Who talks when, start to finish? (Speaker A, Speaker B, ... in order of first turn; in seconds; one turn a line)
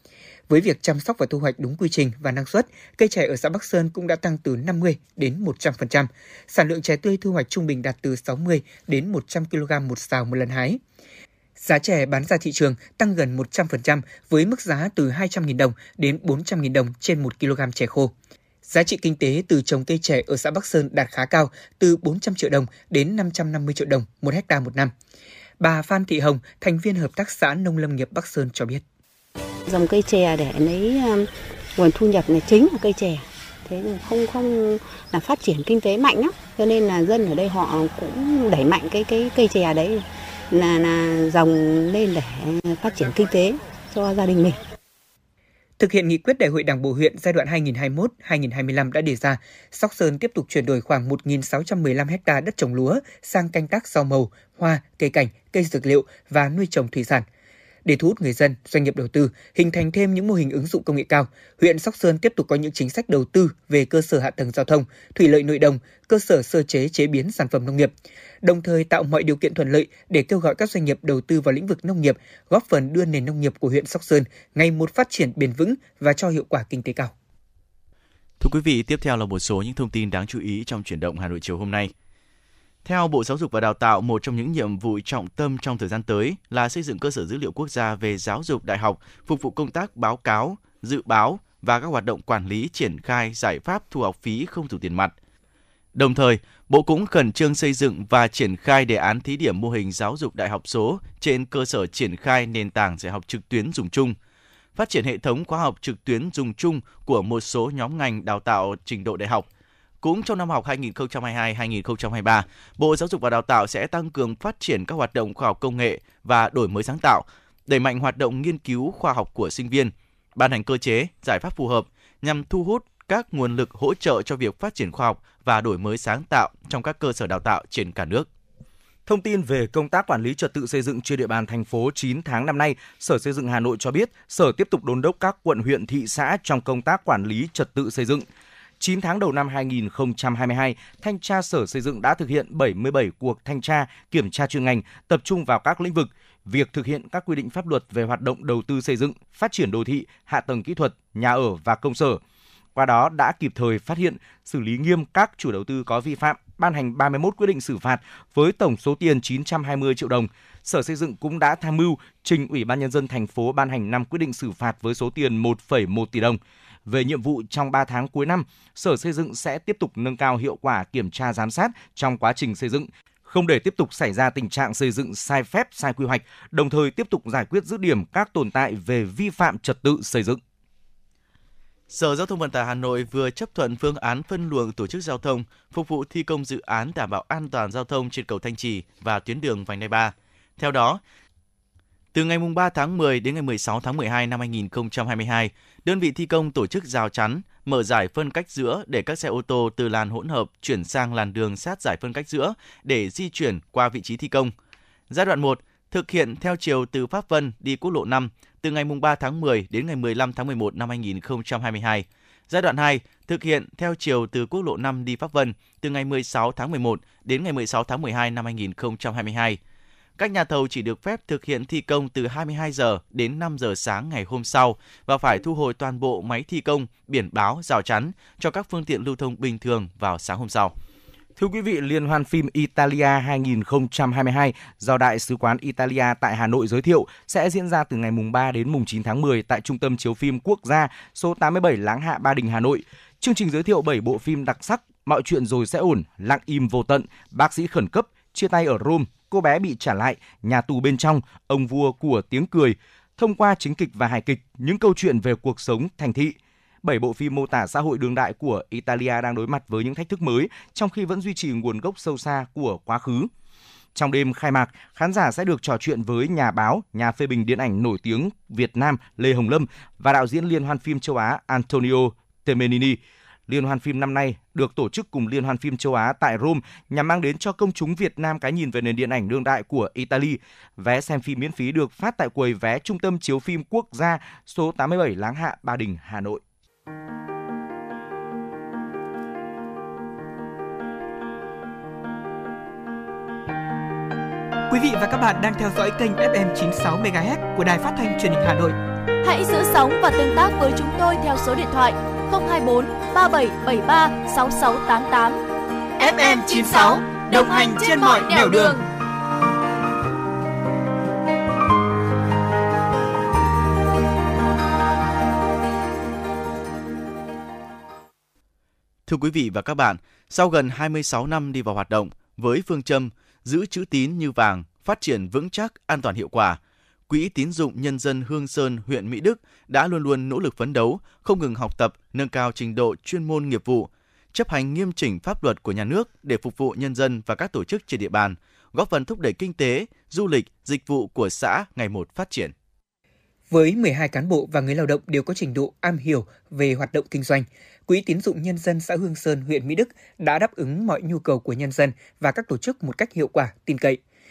Speaker A: 0.5-10.8
Speaker A: 11.6-18.1
Speaker A: 18.6-24.9
Speaker A: 25.6-28.8
Speaker B: 29.7-44.6
Speaker A: 45.8-57.2
Speaker A: 57.8-77.1
Speaker C: 78.4-81.9
Speaker C: 82.8-95.1
Speaker C: 95.9-104.2
Speaker C: 104.7-109.5
Speaker C: 110.0-128.3
Speaker D: 129.1-138.2
Speaker D: 138.8-152.2
Speaker D: 152.7-180.4
Speaker C: 181.9-191.0
Speaker C: 192.1-204.5
Speaker C: 205.1-219.6
Speaker C: 220.2-230.7
Speaker D: 231.3-263.3
Speaker D: 263.9-286.4
Speaker E: 294.7-298.8
Speaker F: 299.2-305.4
Speaker E: 306.0-308.8
Speaker F: 306.1-308.8
Speaker C: 319.1-342.5
Speaker A: 343.5-354.0